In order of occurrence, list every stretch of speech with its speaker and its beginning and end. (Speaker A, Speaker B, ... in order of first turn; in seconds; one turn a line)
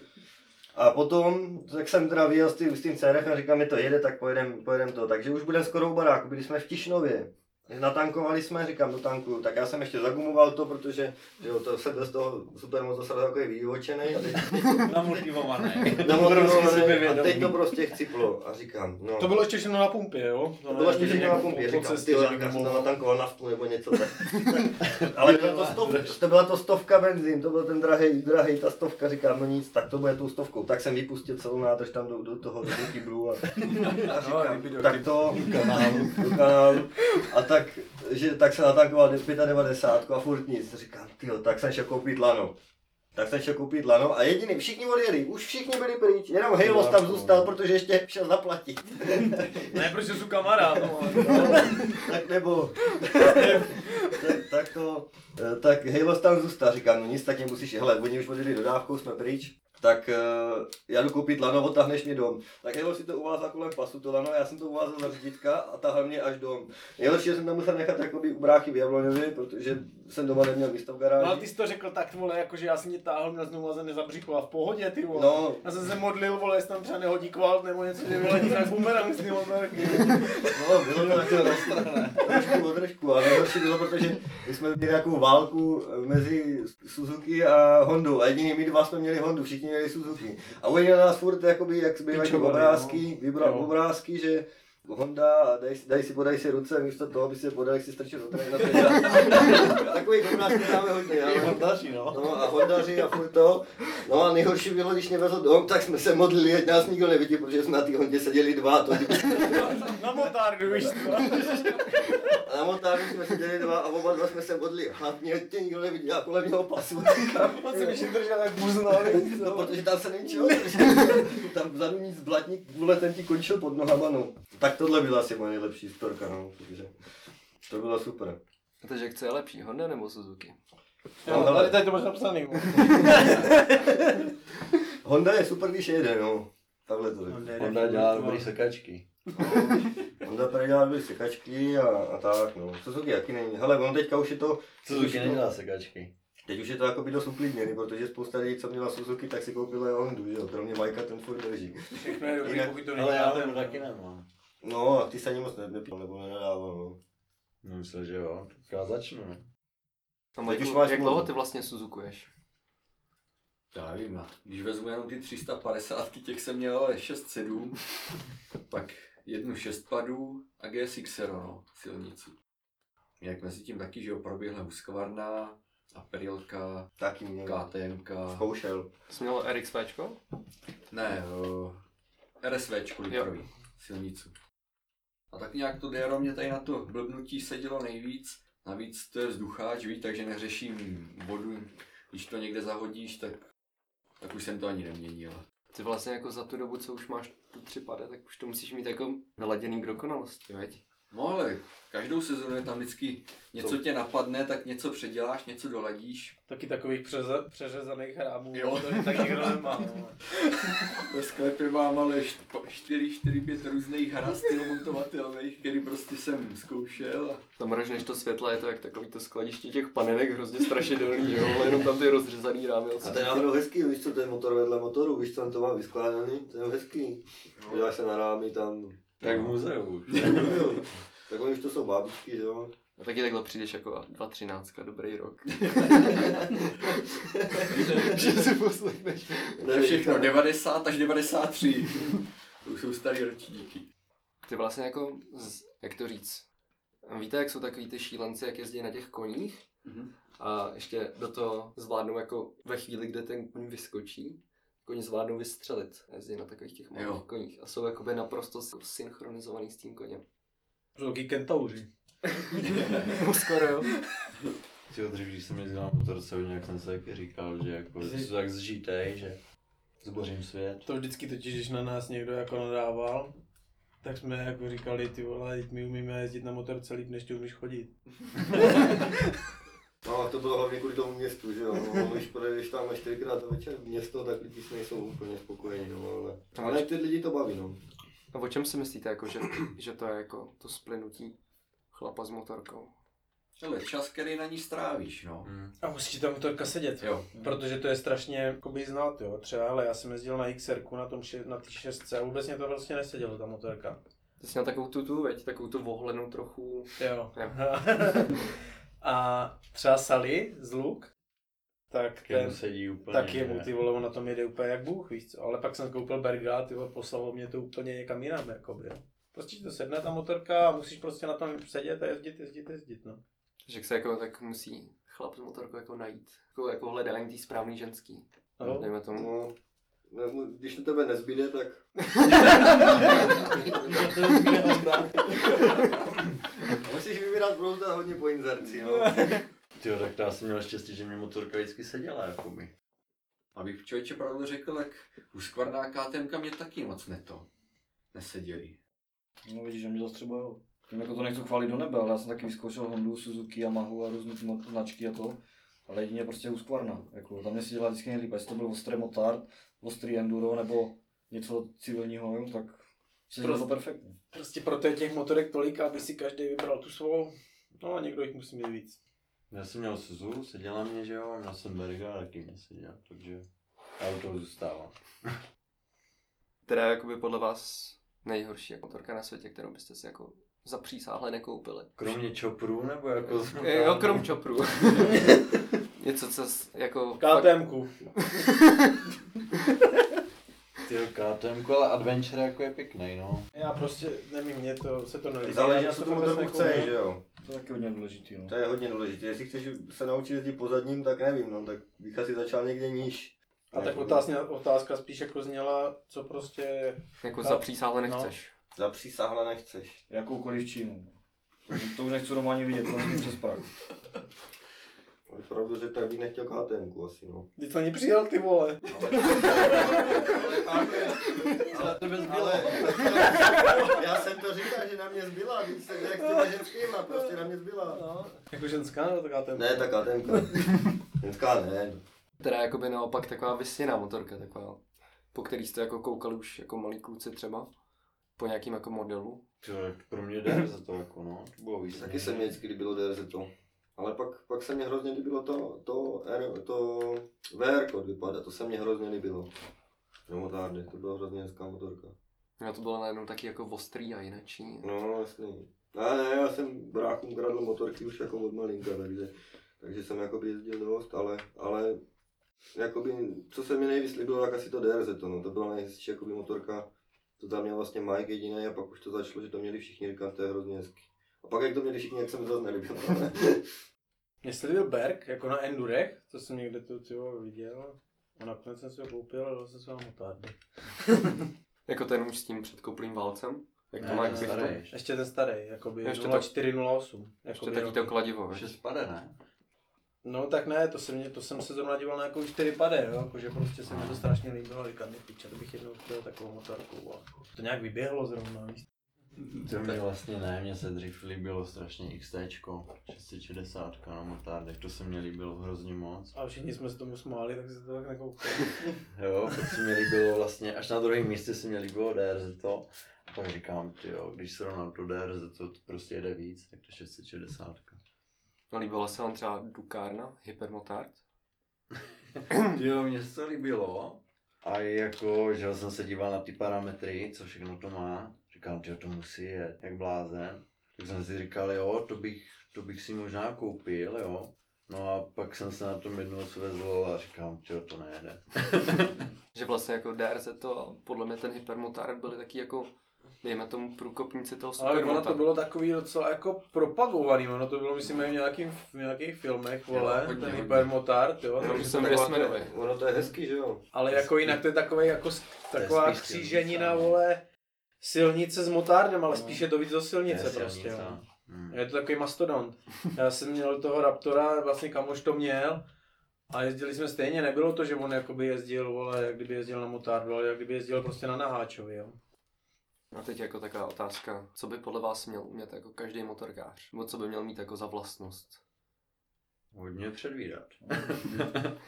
Speaker A: 0.7-15.2
Speaker B: 14.5-17.6
Speaker A: 15.8-19.3
Speaker C: 19.2-22.9
Speaker A: 20.7-42.5
Speaker B: 24.8-26.1
Speaker B: 33.6-34.1
Speaker D: 33.7-34.2
Speaker C: 34.1-35.5
Speaker B: 35.2-36.6
Speaker A: 43.1-49.9
Speaker B: 46.6-47.4
Speaker C: 49.7-52.0
Speaker A: 51.0-71.5
Speaker C: 53.1-54.1
Speaker C: 71.2-80.5
Speaker A: 75.1-75.6
Speaker A: 80.3-109.9
Speaker B: 81.1-82.2
Speaker C: 92.1-93.7
Speaker B: 99.1-99.8
Speaker B: 101.1-102.7
Speaker C: 109.8-112.1
Speaker A: 111.2-118.1
Speaker C: 117.2-121.2
Speaker A: 118.9-126.9
Speaker A: 127.7-128.4
Speaker E: 128.8-130.6
Speaker A: 131.2-131.9
Speaker C: 131.2-133.5
Speaker A: 132.8-134.2
Speaker A: 135.0-137.5
Speaker C: 137.3-138.5
Speaker B: 137.6-139.1
Speaker A: 139.4-145.4
Speaker B: 144.8-146.1
Speaker A: 146.4-152.8
Speaker C: 151.9-153.8
Speaker B: 152.9-154.3
Speaker A: 154.6-157.0
Speaker B: 157.6-159.4
Speaker E: 160.4-162.3
Speaker A: 160.4-161.3
Speaker D: 163.7-167.8
Speaker D: 168.7-172.3
Speaker D: 173.2-176.9
Speaker A: 177.0-177.7
Speaker D: 177.4-178.4
Speaker A: 178.3-178.9
Speaker E: 179.1-180.2
Speaker D: 180.9-181.8
Speaker D: 182.4-184.3
Speaker D: 185.3-193.4
Speaker D: 194.2-195.4
Speaker E: 195.7-200.8
Speaker D: 201.1-206.3
Speaker C: 206.5-210.2
Speaker D: 208.5-209.6
Speaker D: 210.4-217.4
Speaker E: 217.6-223.4
Speaker A: 223.0-229.5
Speaker B: 229.2-230.8
Speaker A: 230.1-232.7
Speaker E: 233.0-236.5
Speaker A: 236.0-236.5
Speaker A: 237.2-238.1
Speaker D: 237.7-238.4
Speaker E: 237.7-239.4
Speaker A: 239.6-240.4
Speaker D: 239.7-243.8
Speaker E: 244.4-246.4
Speaker E: 247.0-249.6
Speaker D: 249.8-250.1
Speaker E: 250.4-260.2
Speaker D: 256.9-257.2
Speaker C: 260.9-261.9
Speaker E: 262.5-263.9
Speaker D: 262.6-263.1
Speaker B: 264.9-269.4
Speaker C: 268.0-268.3
Speaker B: 270.0-270.8
Speaker C: 270.8-273.3
Speaker C: 274.0-277.9
Speaker C: 278.5-279.1
Speaker A: 280.0-287.8
Speaker E: 286.6-286.9
Speaker E: 288.3-291.3
Speaker E: 291.9-292.9
Speaker D: 293.6-295.5
Speaker B: 295.4-295.7
Speaker C: 295.8-304.0
Speaker D: 297.0-297.3
Speaker E: 304.4-307.6
Speaker C: 307.0-308.5
Speaker C: 309.0-311.1
Speaker C: 311.9-323.2
Speaker B: 312.2-313.7
Speaker E: 323.6-329.3
Speaker C: 328.6-328.9
Speaker A: 329.1-329.5
Speaker A: 330.1-331.8
Speaker A: 332.6-334.5
Speaker B: 333.8-335.4
Speaker A: 336.7-339.4
Speaker C: 339.0-339.4
Speaker B: 339.8-342.7
Speaker D: 343.5-347.5
Speaker D: 348.1-348.8
Speaker F: 349.4-364.1
Speaker C: 363.4-363.7
Speaker C: 364.3-369.0
Speaker B: 369.5-373.4
Speaker B: 374.0-375.4
Speaker E: 376.7-382.2
Speaker B: 382.0-384.3
Speaker E: 383.2-389.0
Speaker B: 385.0-385.2
Speaker C: 387.2-387.9
Speaker B: 390.9-393.5
Speaker C: 393.5-396.9
Speaker A: 395.4-397.2
Speaker F: 397.4-398.5
Speaker A: 398.5-404.2
Speaker C: 403.7-408.3
Speaker E: 407.2-408.5
Speaker A: 408.8-410.0
Speaker F: 410.1-411.1
Speaker F: 411.7-413.6
Speaker A: 415.3-417.5
Speaker C: 417.6-420.3
Speaker D: 418.9-420.3
Speaker A: 419.6-428.0
Speaker C: 421.6-423.9
Speaker B: 421.7-423.4
Speaker C: 427.9-430.6
Speaker A: 429.5-432.0
Speaker E: 432.4-434.8
Speaker E: 435.3-437.7
Speaker E: 438.4-439.4
Speaker B: 439.6-442.5
Speaker A: 441.9-449.5
Speaker A: 450.3-452.1
Speaker E: 452.6-454.9
Speaker A: 454.8-462.0
Speaker A: 462.7-466.9
Speaker A: 467.4-473.6
Speaker C: 474.4-480.5
Speaker E: 481.9-484.8
Speaker B: 484.0-484.9
Speaker C: 484.0-488.1
Speaker E: 486.0-486.5
Speaker E: 487.5-488.7
Speaker B: 488.5-489.3
Speaker C: 490.2-498.8
Speaker B: 493.8-494.2
Speaker B: 499.5-506.4
Speaker C: 506.3-508.8
Speaker B: 509.1-518.0
Speaker E: 518.7-521.2
Speaker B: 522.4-539.2
Speaker E: 539.5-542.9
Speaker E: 543.4-545.5
Speaker C: 544.8-552.3
Speaker D: 549.9-550.9
Speaker E: 551.6-552.7
Speaker A: 551.6-553.8
Speaker C: 553.9-557.4
Speaker B: 554.1-554.6
Speaker B: 555.7-557.2
Speaker C: 558.0-565.8
Speaker B: 560.2-561.8
Speaker C: 566.5-572.2
Speaker E: 573.1-578.6
Speaker B: 579.7-581.8
Speaker F: 580.9-581.5